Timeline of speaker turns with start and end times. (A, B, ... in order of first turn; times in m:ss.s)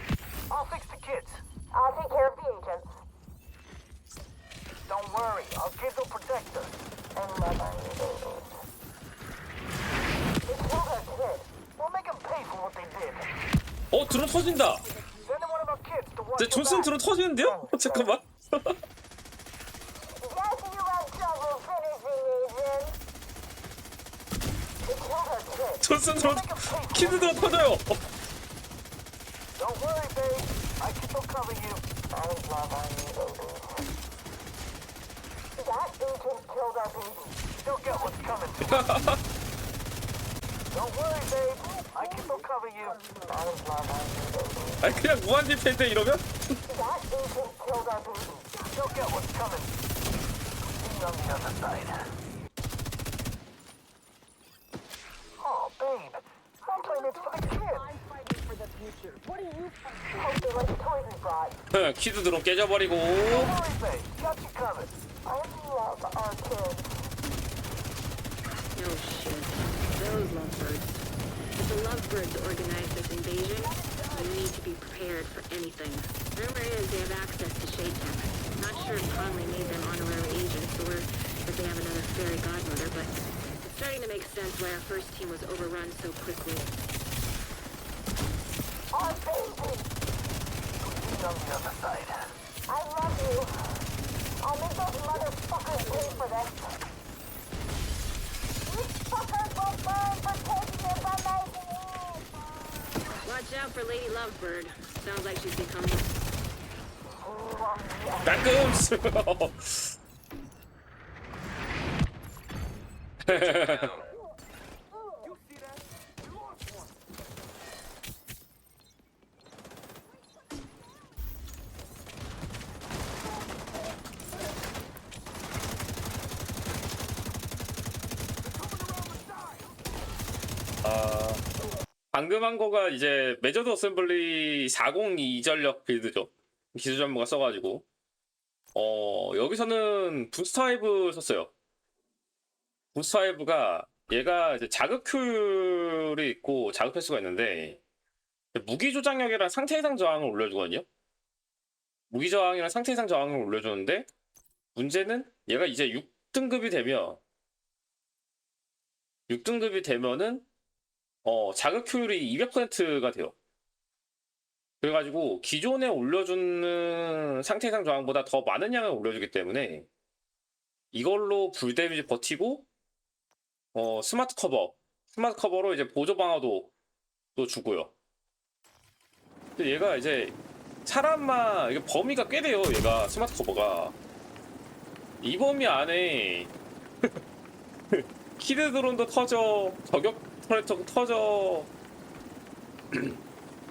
0:00.5-0:01.4 A
0:01.7-0:02.9 B
0:04.9-0:06.7 A
0:07.2-0:08.5 B
0:10.4-0:11.5 B
0:11.8-0:13.3 A
0:13.9-0:14.8 C
0:15.2-0:16.8 A
0:16.4-0:18.8 C
0:17.5-0:17.9 B
0:20.2-0:23.0 B
0:24.8-0:25.8 B
0:25.8-0:28.0 C
0:26.2-0:27.4 A
0:29.6-0:31.8 A
0:32.1-0:33.8 B
0:35.6-0:37.4 B
0:37.6-0:38.9 A
0:38.6-0:39.2 C
0:40.7-0:43.0 A
0:43.1-0:44.8 B
0:44.8-0:46.3 C
0:46.7-0:48.7 B
0:48.7-0:49.7 A
0:50.8-0:52.0 A
0:55.4-0:57.9 A
1:00.1-1:01.6 B
1:01.7-1:03.6 C
1:03.3-1:04.9 A
1:05.2-1:06.9 B
1:08.7-1:26.7 D
1:28.9-1:29.9 B
1:30.9-1:32.2 A
1:32.7-1:33.5 B
1:34.4-1:36.7 B
1:38.7-1:42.4 B
1:43.2-1:46.1 D
1:47.2-1:48.5 B
1:48.2-1:49.9 C
1:53.2-1:54.0 C
2:10.8-2:11.4 C
2:12.1-2:17.8 C
2:18.7-2:21.5 C
2:23.0-2:27.8 C
2:28.5-2:30.8 C
2:32.1-2:34.1 C
2:34.7-2:37.2 C
2:39.3-2:40.5 C
2:41.2-2:43.3 C
2:44.8-2:49.9 C
2:50.9-2:52.7 C
2:53.7-2:56.7 C
2:57.3-2:57.9 C
2:59.6-3:04.0 C
3:05.2-3:06.5 C
3:07.9-3:11.7 C
3:12.9-3:13.2 C